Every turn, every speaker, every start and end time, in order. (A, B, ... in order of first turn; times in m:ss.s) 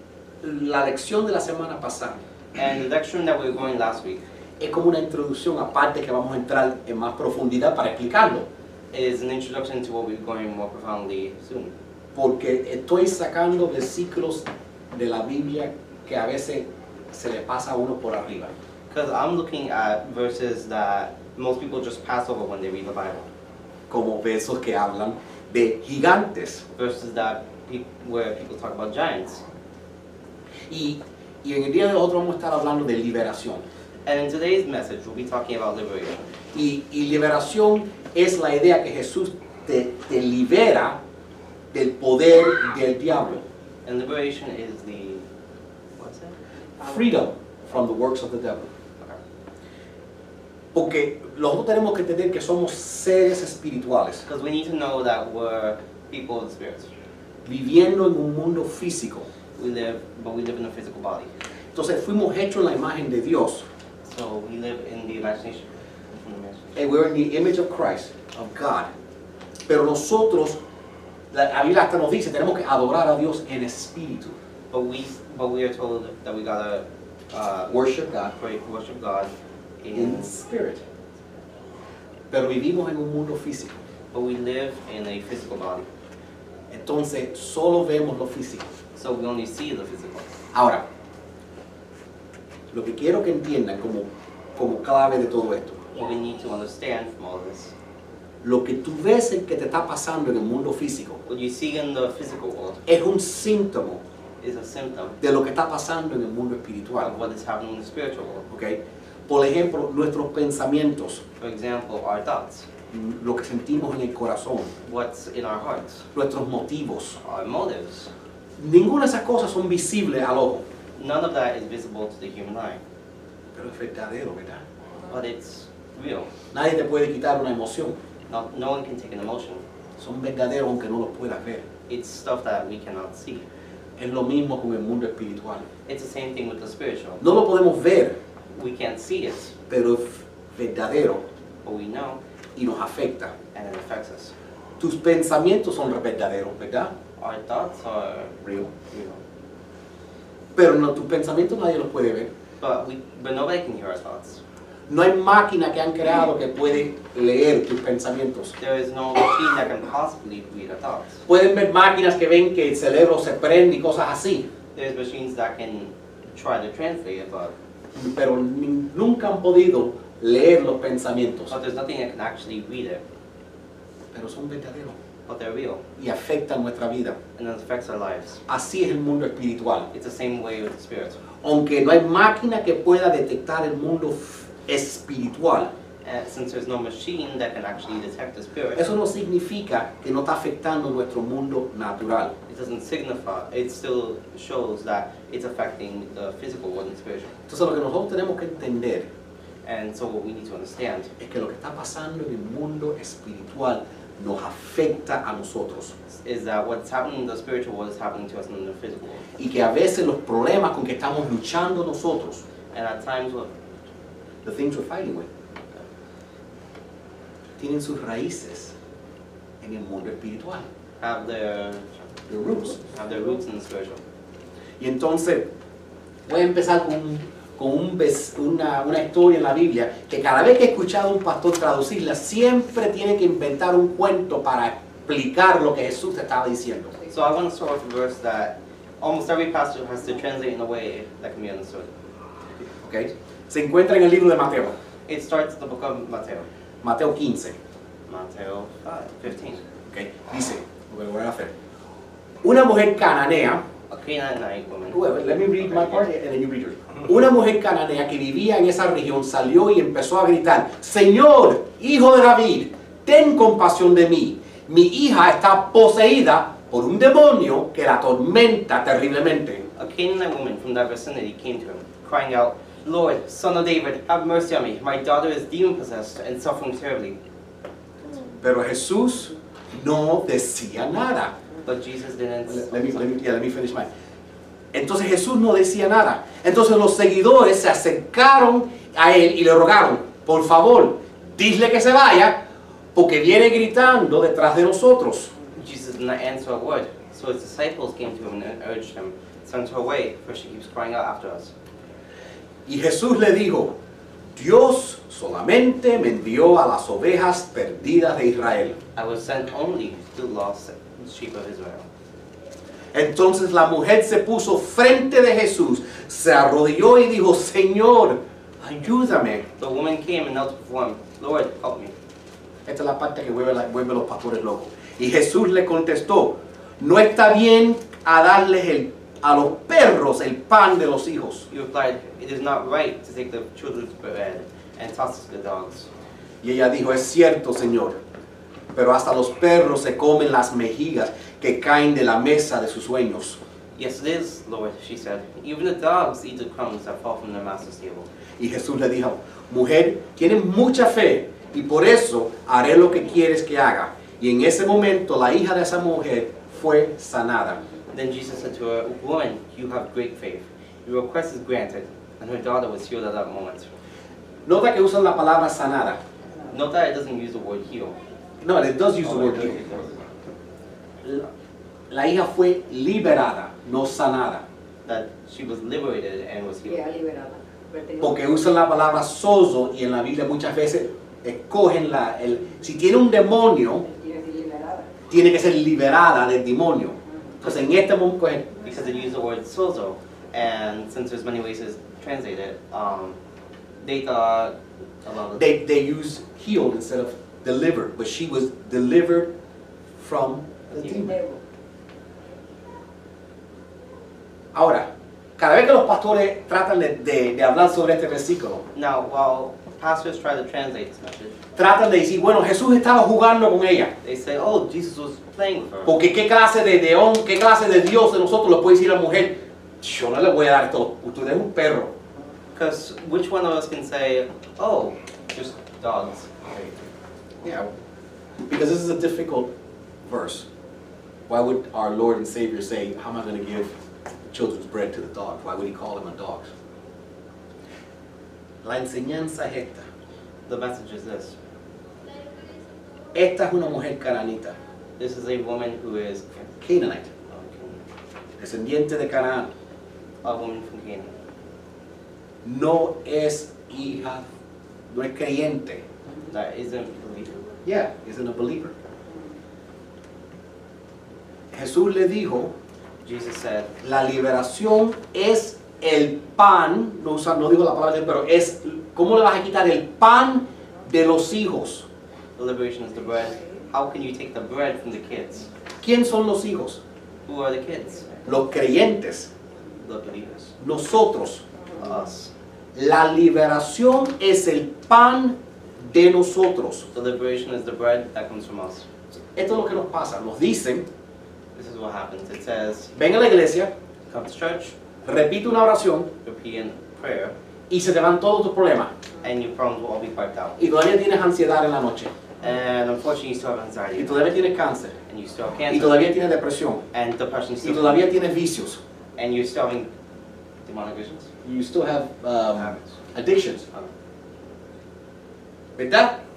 0:00.4-0:02.2 A
0:02.6-0:04.2 B
0:04.6-0:08.5 A
0:08.9-0:11.7 B
0:12.2-0:18.5 A
0:18.9-0:23.3 B
0:23.9-0:26.6 A
0:26.8-0:29.4 B
0:30.7-0:33.6 A
0:34.1-0:36.3 B
0:36.5-0:41.0 A
0:41.7-0:43.4 A
0:43.8-0:45.3 B
0:46.0-0:46.4 B
0:46.8-0:48.7 A
0:50.7-0:54.3 A
0:54.3-0:56.9 B
0:57.4-0:59.3 A
0:59.6-1:01.3 B
1:01.7-1:03.6 A
1:04.0-1:06.8 B
1:06.8-1:08.9 A
1:09.7-1:10.6 A
1:11.3-1:14.4 A
1:14.7-1:17.7 B
1:17.7-1:18.3 A
1:18.3-1:20.4 B
1:19.9-1:20.8 A
1:22.3-1:23.8 A
1:24.1-1:25.9 B
1:26.7-1:28.7 A
1:29.0-1:30.3 B
1:30.5-1:30.8 A
1:32.7-1:35.8 A
1:35.9-1:37.7 B
1:38.4-1:41.2 A
1:41.3-1:42.8 B
1:42.9-1:44.0 A
1:44.4-1:45.2 B
1:45.2-1:47.1 A
1:47.0-1:48.5 B
1:48.5-1:51.2 A
1:51.4-1:52.7 B
1:52.9-1:54.7 A
1:54.8-1:56.1 B
1:56.1-1:57.2 A
1:57.2-1:58.1 B
1:58.6-2:00.6 A
2:01.0-2:02.8 B
2:03.6-2:04.6 A
2:05.1-2:06.3 B
2:06.5-2:08.0 A
2:08.3-2:09.6 B
2:10.0-2:11.6 A
2:11.9-2:13.5 B
2:14.0-2:15.7 A
2:15.9-2:17.2 B
2:17.2-2:18.2 A
2:18.5-2:19.5 B
2:19.7-2:21.2 A
2:21.6-2:22.2 B
2:22.6-2:23.3 A
2:23.5-2:24.3 B
2:24.8-2:26.9 A
2:27.2-2:29.2 B
2:28.4-2:28.7 A
2:30.6-2:32.3 A
2:32.6-2:34.4 B
2:34.9-2:38.6 A
2:38.6-2:41.2 B
2:41.3-2:44.5 A
2:44.8-2:47.5 B
2:48.0-2:51.5 A
2:51.5-2:53.0 B
2:54.1-2:55.0 A
2:55.3-2:55.8 B
2:56.0-2:57.2 A
2:57.4-2:58.4 B
2:58.5-2:59.9 A
2:59.9-3:01.2 B
3:01.4-3:05.7 A
3:06.0-3:08.9 B
3:08.8-3:12.3 A
3:12.5-3:17.3 B
3:17.5-3:19.1 A
3:19.6-3:21.1 B
3:21.2-3:25.9 A
3:26.1-3:29.2 B
3:29.4-3:32.4 A
3:32.7-3:33.5 B
3:34.4-3:35.3 A
3:37.6-3:38.7 A
3:39.6-3:40.7 A
3:41.0-3:42.1 B
3:42.3-3:42.8 A
3:42.9-3:44.0 B
3:44.8-3:45.5 A
3:46.3-3:57.0 A
3:57.1-4:01.9 B
4:02.8-4:04.8 A
4:05.1-4:06.5 B
4:06.8-4:07.6 A
4:08.1-4:09.6 B
4:09.9-4:11.5 A
4:12.4-4:13.6 A
4:13.9-4:16.0 B
4:14.9-4:29.6 A
4:29.8-4:37.2 B
4:38.4-4:41.3 A
4:41.6-4:43.1 B
4:42.5-4:43.9 A
4:44.7-4:52.4 A
4:53.0-4:55.3 A
4:55.5-5:01.5 B
5:02.7-5:03.8 A
5:04.4-5:08.8 A
5:08.9-5:11.9 B
5:12.9-5:19.4 A
5:19.6-5:21.9 B
5:22.7-5:31.5 A
5:31.5-5:35.9 B
5:36.4-5:38.0 A
5:38.7-5:43.4 A
5:43.8-5:48.1 B
5:48.4-5:57.6 A
5:57.9-6:03.7 B
6:04.5-6:06.0 A
6:06.5-6:08.0 B
6:08.4-6:09.7 A
6:09.0-6:10.0 B
6:11.9-6:14.4 A
6:14.8-6:16.8 B
6:16.7-6:18.3 C
6:18.0-6:23.9 A
6:23.9-6:24.9 C
6:25.1-6:28.5 A
6:28.6-6:33.2 B
6:33.8-6:35.4 B
6:35.4-6:39.3 A
6:40.0-6:41.1 A
6:40.7-6:41.0 B
6:41.1-6:41.4 C
6:44.5-6:44.9 A
6:45.4-6:48.6 A
6:48.7-6:51.4 B
6:51.6-6:53.9 A
6:54.0-6:56.0 B
6:55.8-7:01.9 A
7:02.6-7:06.6 B
7:07.4-7:07.7 A
7:08.5-7:09.5 A
7:10.0-7:10.5 A
7:11.3-7:13.7 A
7:14.3-7:16.5 A
7:18.6-7:19.8 A
7:20.5-7:21.4 B
7:23.1-7:24.6 A
7:25.0-7:26.5 B
7:26.6-7:27.1 A
7:27.3-7:27.8 B
7:28.4-7:29.5 A
7:30.2-7:31.1 B
7:32.4-7:34.3 A
7:34.9-7:35.8 A
7:36.3-7:37.4 B
7:37.6-7:38.7 A
7:41.5-7:42.5 A
7:43.0-7:43.7 B
7:43.8-7:51.9 A
7:52.4-7:55.5 B
7:55.8-7:56.8 A
7:57.3-7:58.2 B
7:58.3-7:59.3 A
7:59.8-8:00.5 B
8:00.6-8:01.4 A
8:01.7-8:02.3 B
8:02.8-8:06.9 A
8:06.9-8:08.9 B
8:09.4-8:10.9 A
8:11.6-8:12.9 B
8:13.0-8:13.7 A
8:14.1-8:14.8 B
8:15.0-8:16.1 A
8:16.2-8:17.3 B
8:17.7-8:18.9 A
8:19.2-8:20.6 B
8:20.6-8:22.1 A
8:22.4-8:24.2 B
8:24.0-8:25.0 A
8:25.1-8:26.0 B
8:25.7-8:26.8 A
8:26.9-8:28.0 B
8:27.6-8:28.8 A
8:29.2-8:29.9 B
8:30.6-8:31.3 B
8:31.4-8:33.7 A
8:32.6-8:32.8 B
8:35.8-8:36.2 A